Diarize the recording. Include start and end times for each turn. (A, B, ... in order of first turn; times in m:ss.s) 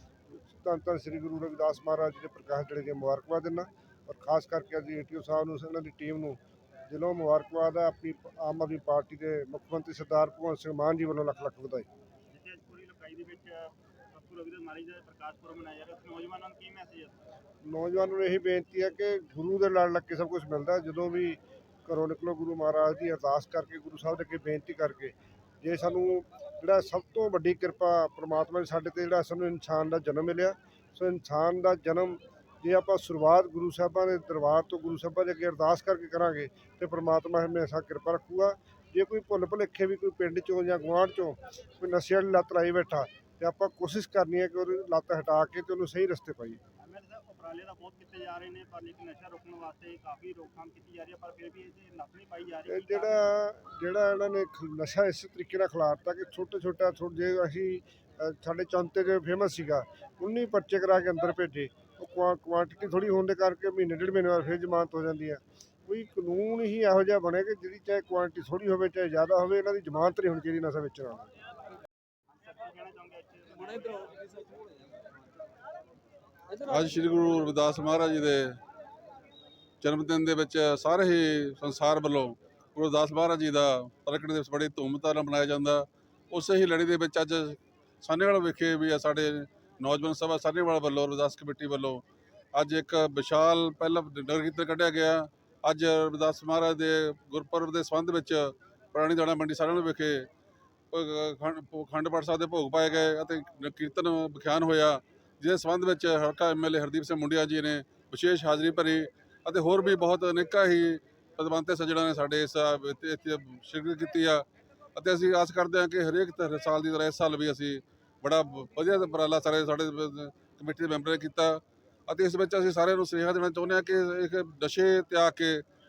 0:00.5-0:11.9 A
0:12.3-0:17.2 B
0:17.6-0:46.6 A
0:46.8-0:53.2 B
0:52.7-1:11.3 A
1:12.4-1:14.3 B
1:16.6-1:18.6 C
1:19.8-1:32.0 C
1:32.6-1:40.3 C
1:40.9-1:54.4 C
1:55.0-2:05.6 C